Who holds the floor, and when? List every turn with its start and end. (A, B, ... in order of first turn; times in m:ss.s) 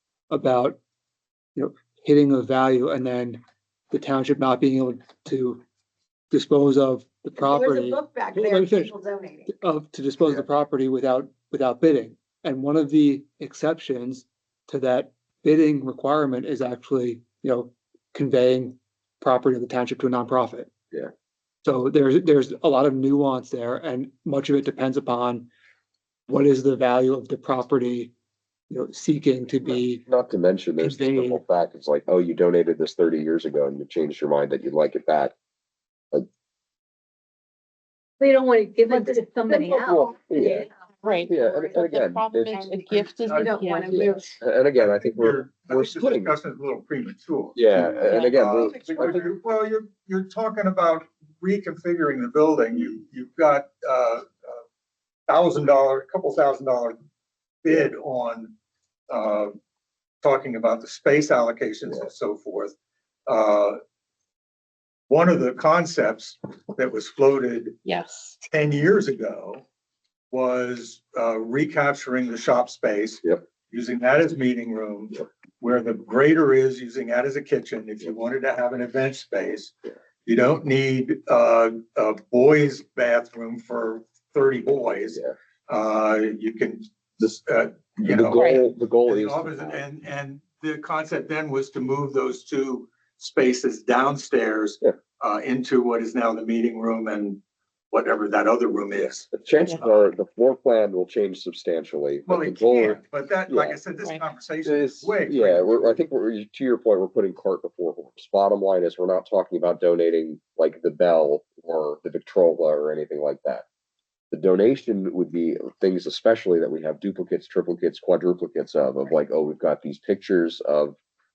0:00.3-0:00.8 A
0:01.6-0:03.4 A
0:03.9-0:05.6 A
0:06.3-0:08.9 A
0:07.4-0:09.5 B
0:09.5-0:20.7 A
0:21.6-0:25.5 A
0:26.3-0:28.1 A
0:28.7-0:30.0 A
0:29.6-0:35.4 C
0:30.8-0:31.4 A
0:38.2-0:40.2 D
0:38.9-0:40.7 B
0:39.9-0:40.7 C
0:41.0-0:44.3 E
0:41.3-0:42.8 C
0:43.2-0:43.6 F
0:43.3-0:44.3 B
0:43.9-0:46.3 C
0:44.8-0:54.6 F
0:47.6-0:49.2 C
0:48.1-0:49.1 B
0:55.3-0:57.0 F
0:57.6-0:58.5 F
0:59.1-0:59.6 F
1:00.2-1:02.8 F
1:03.3-1:03.8 F
1:05.1-1:07.8 F
1:07.8-1:08.4 E
1:08.4-1:09.6 F
1:10.3-1:19.7 F
1:20.3-1:28.4 F
1:28.0-1:29.9 C
1:28.3-1:28.7 E
1:29.1-1:37.4 F
1:37.9-1:39.3 F
1:39.0-1:43.8 C
1:42.3-1:46.0 F
1:44.0-1:44.2 E
1:44.6-1:53.6 C
1:54.3-2:01.0 C